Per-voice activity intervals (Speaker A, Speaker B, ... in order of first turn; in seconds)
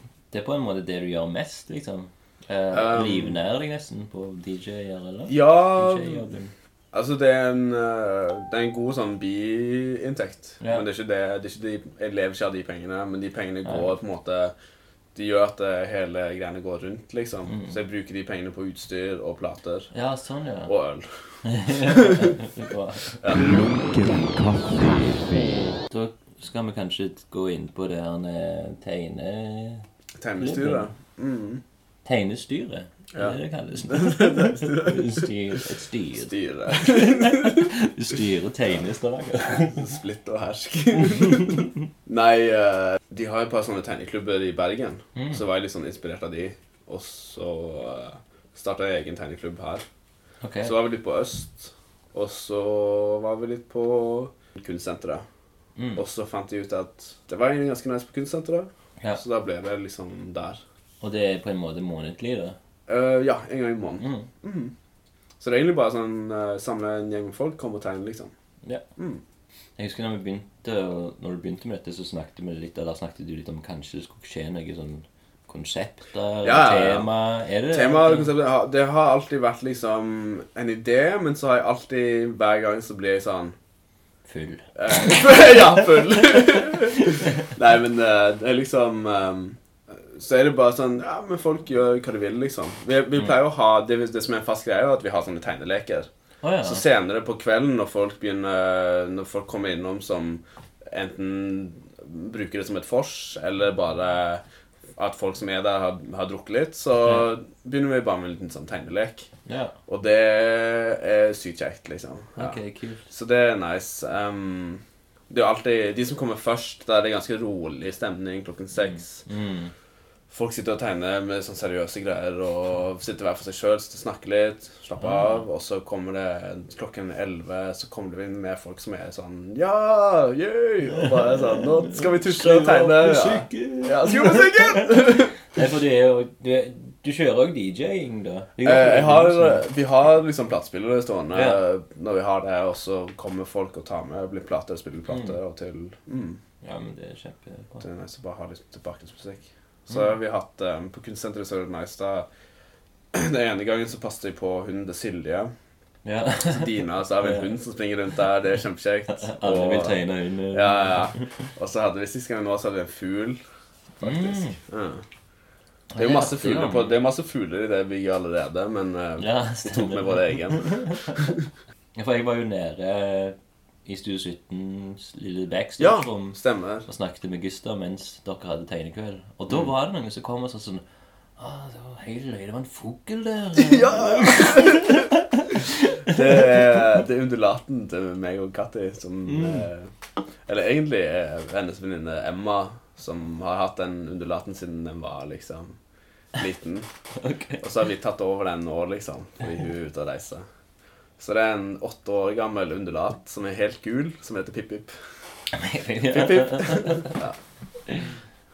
Speaker A: 0.3-6.5, 17.5-17.8, 19.9-20.7, 21.4-23.2, 25.9-29.9, 30.4-30.9, 32.0-39.8, 41.0-41.7, 45.1-45.4, 50.4-50.8, 55.8-56.0, 61.0-62.6, 64.0-64.3, 69.8-78.3, 84.3-87.5, 96.4-96.8, 109.5-109.8, 112.4-113.1, 118.8-119.7, 125.0-125.4, 131.0-139.6, 141.3-141.6, 145.1-145.4, 146.6-147.8, 156.1-157.5, 159.1-161.5, 164.0-164.6, 165.9-166.9, 169.2-171.3, 171.9-180.8, 181.4-186.8, 189.3-189.7, 197.2-197.6, 205.5-207.2, 207.9-208.1
Speaker B: 2.7-3.4, 5.3-6.2, 6.9-14.5, 15.1-19.9, 20.7-22.4, 30.2-31.6, 33.1-35.3, 36.1-37.7, 39.6-49.9, 50.6-55.2, 56.0-60.6, 62.9-64.7, 65.4-68.3, 69.0-69.2, 76.4-77.1, 77.7-83.6, 84.8-96.1, 96.6-104.4, 105.0-109.3, 109.9-112.6, 113.1-119.2, 120.3-135.4, 138.6-146.4, 147.8-152.3, 153.1-155.5, 156.5-163.4, 164.0-165.0, 166.0-171.5, 175.8-176.9, 183.6-189.9, 190.5-195.8, 196.3-196.9, 197.6-200.5, 201.2-204.9, 206.1-207.3
Speaker C: 23.3-25.8